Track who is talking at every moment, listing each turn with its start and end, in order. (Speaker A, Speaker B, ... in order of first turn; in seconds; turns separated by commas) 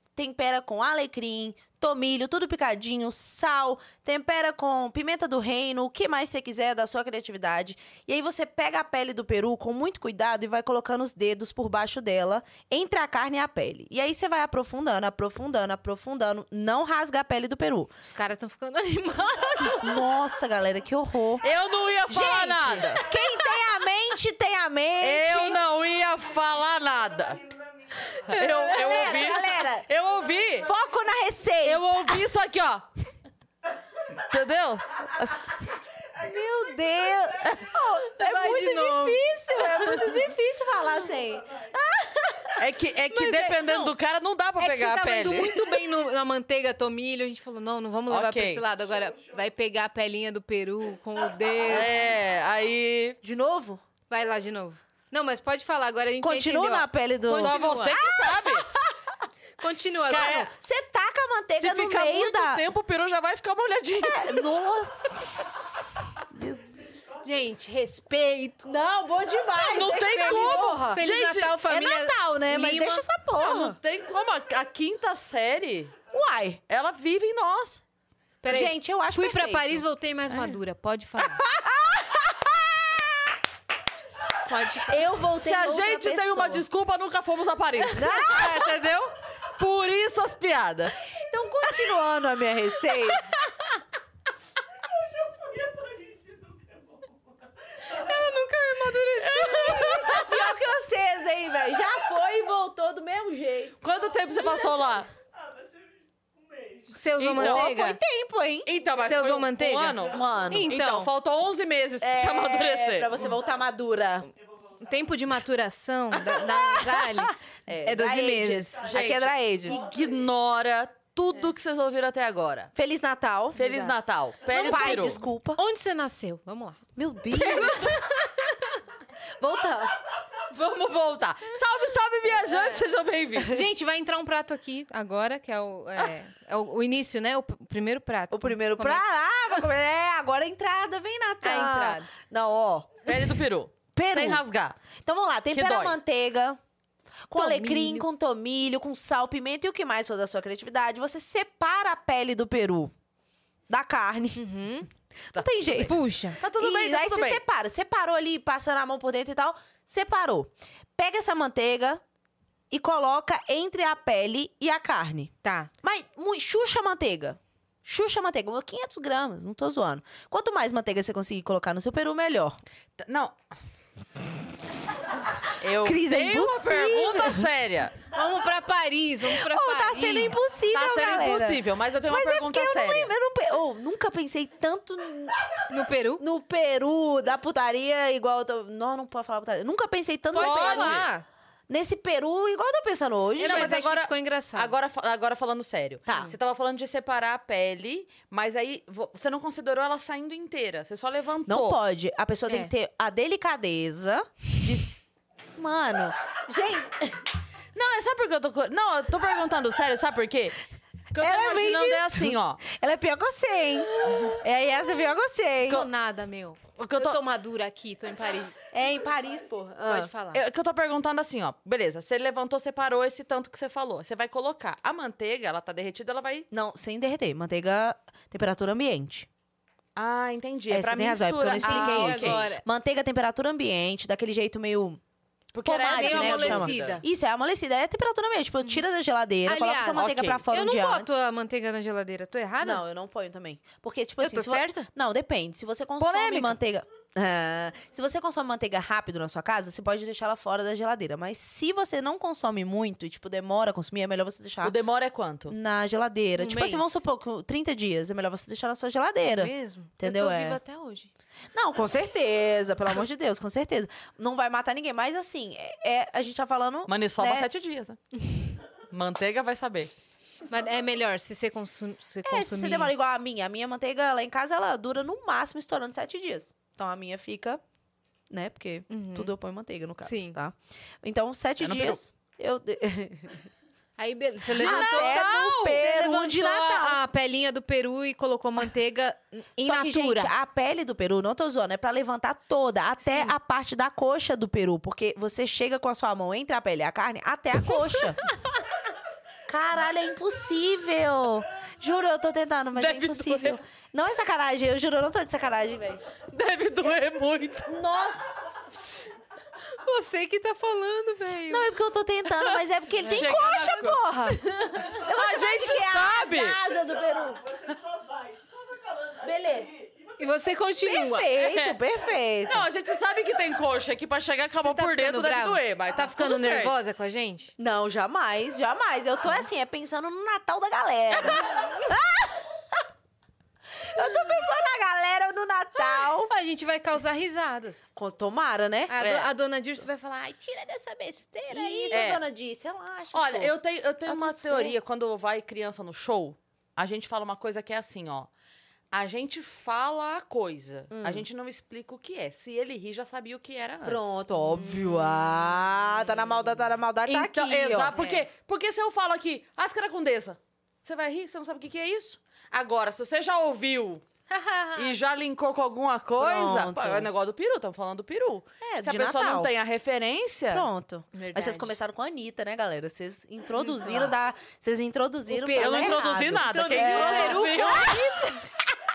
Speaker A: 0.2-17.9, Speaker B: 18.0-20.0, Speaker A: 19.8-21.4, Speaker C: 21.4-23.0, Speaker A: 22.1-25.6, Speaker C: 25.0-27.4, Speaker D: 26.0-31.1, Speaker C: 28.3-30.7, Speaker A: 28.3-29.9, Speaker A: 30.6-32.2, Speaker C: 31.6-32.9, Speaker C: 34.2-35.6, Speaker D: 35.0-35.3, Speaker D: 36.1-38.0, Speaker A: 36.2-41.6, Speaker B: 38.1-40.2, Speaker D: 41.0-42.5, Speaker C: 42.6-45.6, Speaker B: 43.1-43.9, Speaker B: 44.6-51.9, Speaker C: 48.1-48.6, Speaker D: 48.7-49.5, Speaker D: 51.1-52.4, Speaker C: 51.7-53.2, Speaker A: 53.2-53.8, Speaker B: 54.1-58.0, Speaker A: 56.2-59.1, Speaker C: 57.4-58.7, Speaker B: 59.6-60.5, Speaker C: 60.1-60.5, Speaker A: 60.1-62.6, Speaker C: 61.6-64.5, Speaker A: 64.0-66.8, Speaker D: 66.8-67.5, Speaker B: 67.2-68.7, Speaker A: 68.6-71.1, Speaker C: 69.6-71.6, Speaker B: 69.9-73.1, Speaker A: 71.6-73.8, Speaker C: 73.4-76.0, Speaker A: 76.1-76.6, Speaker C: 76.7-77.8, Speaker B: 78.4-81.4, Speaker A: 78.5-79.8, Speaker A: 81.4-83.3, Speaker B: 84.5-85.0, Speaker A: 84.9-86.7, Speaker C: 85.3-91.0, Speaker A: 87.9-88.7, Speaker A: 91.3-93.2, Speaker D: 94.8-99.1, Speaker B: 97.9-100.1, Speaker C: 99.2-100.4, Speaker D: 99.7-100.2, Speaker A: 99.8-103.8, Speaker D: 101.5-102.1, Speaker C: 103.8-105.1, Speaker D: 103.9-107.0, Speaker B: 106.9-108.0, Speaker C: 107.2-107.7, Speaker A: 107.2-108.7, Speaker C: 108.7-110.2, Speaker D: 108.8-109.2, Speaker B: 109.0-111.1, Speaker D: 109.9-110.5, Speaker A: 110.1-110.7, Speaker C: 110.7-113.1, Speaker A: 112.0-114.3, Speaker D: 113.2-113.5, Speaker D: 114.2-115.2, Speaker B: 114.8-118.9, Speaker A: 116.5-119.8, Speaker D: 118.7-120.3, Speaker C: 118.9-122.7, Speaker A: 122.8-123.9, Speaker C: 123.5-125.2, Speaker A: 124.5-125.6, Speaker B: 124.6-126.8, Speaker A: 127.0-128.0, Speaker B: 127.4-128.1, Speaker A: 129.4-130.0, Speaker C: 130.5-133.6, Speaker B: 133.4-139.0, Speaker A: 138.3-143.1, Speaker B: 141.4-142.1, Speaker C: 143.1-144.8, Speaker A: 143.9-144.4, Speaker A: 145.0-146.6, Speaker C: 145.5-146.0, Speaker A: 147.3-152.9, Speaker B: 147.3-148.1, Speaker A: 153.7-154.4, Speaker B: 154.4-154.9, Speaker A: 155.3-162.0, Speaker B: 155.7-156.4, Speaker C: 156.4-157.4, Speaker A: 162.7-172.6, Speaker B: 165.4-165.7, Speaker C: 173.0-173.3, Speaker C: 175.6-177.9, Speaker A: 175.8-177.5, Speaker B: 178.1-180.4, Speaker A: 179.2-185.4, Speaker C: 180.7-183.1, Speaker B: 185.7-186.2, Speaker A: 186.2-191.1, Speaker B: 190.3-191.3, Speaker C: 190.4-191.1, Speaker A: 191.7-193.8, Speaker B: 193.4-194.7, Speaker C: 193.4-201.8, Speaker A: 196.1-196.3, Speaker A: 201.5-205.0, Speaker A: 205.6-207.2, Speaker C: 207.8-210.6, Speaker C: 211.1-212.6, Speaker A: 211.2-215.8, Speaker B: 215.7-218.6, Speaker C: 216.8-217.2, Speaker A: 218.7-220.1, Speaker B: 219.9-220.4, Speaker C: 220.3-226.5, Speaker A: 226.5-229.3, Speaker C: 230.0-232.4, Speaker A: 230.7-235.0, Speaker B: 231.6-232.6, Speaker C: 235.5-237.0, Speaker A: 235.6-241.1, Speaker B: 235.9-237.0, Speaker B: 239.4-242.8, Speaker C: 239.9-240.4, Speaker A: 242.6-254.8, Speaker B: 244.2-244.9, Speaker C: 246.0-246.6, Speaker C: 254.6-255.5, Speaker A: 255.5-260.6, Speaker B: 256.4-257.0, Speaker B: 259.4-261.1, Speaker A: 261.5-267.5, Speaker C: 266.9-268.0, Speaker C: 268.9-269.9, Speaker B: 270.5-272.9, Speaker A: 272.2-277.6, Speaker A: 278.3-283.5, Speaker B: 278.9-279.3, Speaker B: 280.0-280.4, Speaker C: 281.6-282.0, Speaker B: 284.0-290.3, Speaker A: 284.5-287.0, Speaker C: 284.5-285.8, Speaker A: 289.6-298.2, Speaker B: 293.1-293.3, Speaker A: 299.5-306.0, Speaker C: 302.8-303.6, Speaker C: 306.3-307.7, Speaker A: 307.7-308.6, Speaker B: 309.8-311.7, Speaker A: 311.5-317.4, Speaker C: 312.4-314.4, Speaker B: 313.0-313.3, Speaker C: 314.9-316.6, Speaker D: 317.0-320.6, Speaker A: 319.2-319.7, Speaker B: 320.2-321.3, Speaker A: 320.9-322.7, Speaker C: 321.4-321.8, Speaker C: 322.5-326.7, Speaker B: 324.6-327.5, Speaker A: 327.6-332.5, Speaker A: 333.8-336.3, Speaker B: 336.3-337.9, Speaker A: 337.9-338.9, Speaker B: 338.9-342.0, Speaker C: 339.0-339.3, Speaker A: 341.5-343.5, Speaker C: 341.9-342.2, Speaker C: 343.1-348.3, Speaker A: 344.1-344.8, Speaker C: 348.9-354.1, Speaker A: 350.9-351.3, Speaker A: 353.8-357.9, Speaker B: 354.5-354.9, Speaker C: 357.1-364.0, Speaker B: 357.9-358.3, Speaker B: 364.3-364.9, Speaker C: 364.8-370.7, Speaker A: 366.2-367.1, Speaker A: 368.6-369.5, Speaker A: 370.5-378.6, Speaker B: 371.1-371.7, Speaker B: 373.6-374.1, Speaker B: 375.3-378.4, Speaker C: 375.6-378.0